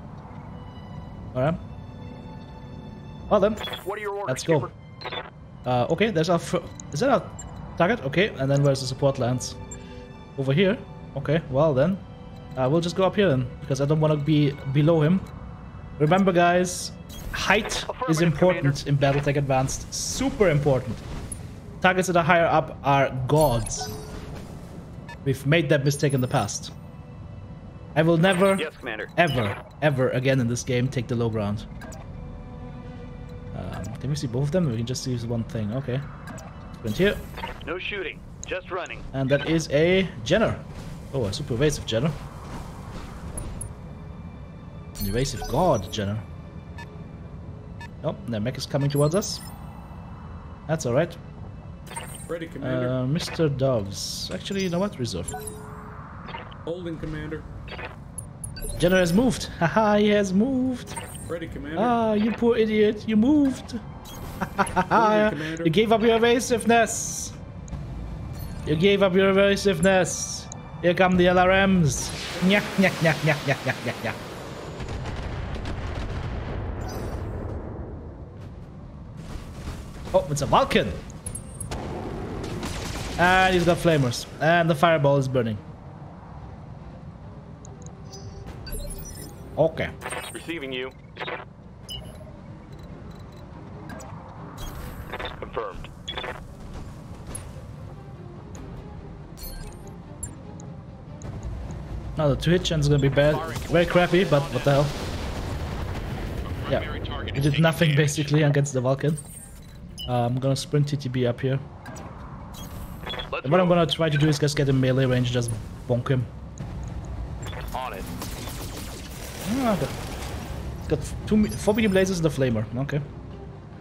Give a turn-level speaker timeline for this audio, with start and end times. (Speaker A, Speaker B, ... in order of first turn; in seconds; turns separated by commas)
Speaker A: 1.3-1.6, Speaker A: 3.3-3.7, Speaker B: 3.9-4.7, Speaker A: 4.3-4.7, Speaker A: 5.7-9.6, Speaker A: 10.4-12.0, Speaker A: 12.6-15.3, Speaker A: 16.0-21.0, Speaker B: 17.9-18.8, Speaker A: 21.8-23.9, Speaker A: 25.2-26.7, Speaker A: 27.9-31.7, Speaker B: 28.6-29.1, Speaker A: 33.5-36.1, Speaker A: 36.8-37.2, Speaker B: 37.6-39.0, Speaker A: 39.1-42.2, Speaker A: 45.0-46.2, Speaker A: 48.0-49.4, Speaker A: 50.7-51.2, Speaker C: 52.3-53.0, Speaker A: 52.6-55.4, Speaker C: 56.6-57.5, Speaker A: 58.8-61.0, Speaker C: 61.3-62.0, Speaker A: 61.8-63.8, Speaker A: 64.4-67.4, Speaker C: 64.9-65.8, Speaker A: 68.7-74.2, Speaker A: 80.1-81.0, Speaker A: 83.2-85.6, Speaker A: 89.6-89.9, Speaker D: 90.3-91.0, Speaker D: 95.4-95.9, Speaker A: 102.2-104.9, Speaker D: 103.3-105.0, Speaker D: 106.5-108.4, Speaker A: 106.7-109.2, Speaker A: 110.1-111.6, Speaker D: 113.3-113.8, Speaker A: 113.4-116.3, Speaker D: 117.7-118.1, Speaker A: 119.5-120.0, Speaker A: 120.9-123.0